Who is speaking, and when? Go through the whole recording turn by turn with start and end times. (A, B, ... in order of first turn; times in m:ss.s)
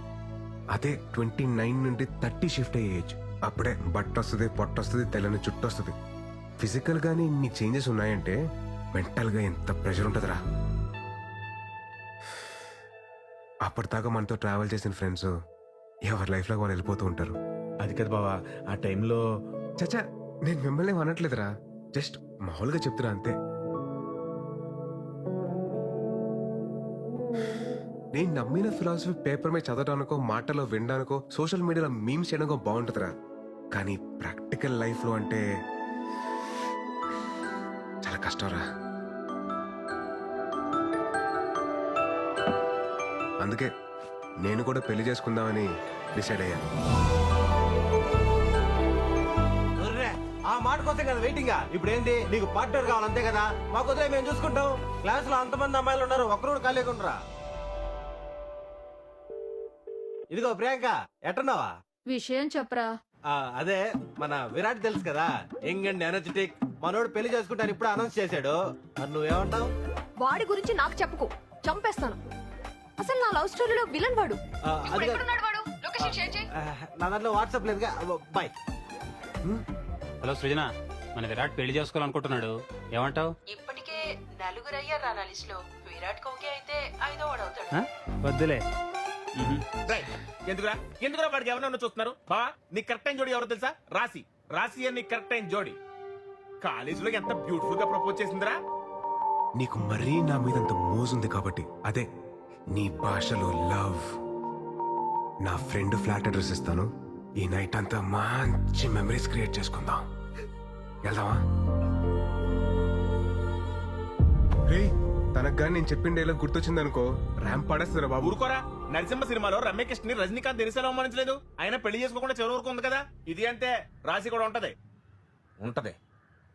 0:00.7-0:06.0 A
0:06.6-0:08.4 A
0:08.9-0:10.4 A
0:13.6-0:15.3 A
0:16.1-0:17.4 A
0:17.8-0:19.2 B
0:19.8-0:23.3 A
0:28.1-0:33.1 A
0:33.7-0:35.4 A
0:38.0-0:38.6 A
0:43.4-0:43.7 A
0:44.4-0:46.6 A
0:49.8-0:57.2 C
1:00.3-1:01.7 C
1:03.3-1:09.7 C
1:10.2-1:12.2 D
1:13.0-1:16.4 D
1:14.7-1:15.2 C
1:16.0-1:18.5 C
1:20.2-1:23.3 E
1:23.5-1:27.8 F
1:27.7-1:28.6 E
1:29.4-1:29.6 E
1:29.8-1:35.8 B
1:36.6-1:38.6 B
1:39.6-1:42.1 A
1:42.7-1:44.0 A
1:45.4-1:46.9 A
1:47.4-1:50.0 A
1:51.0-1:51.4 A
1:54.7-1:58.4 A
1:58.2-2:04.7 B
2:05.6-2:06.0 B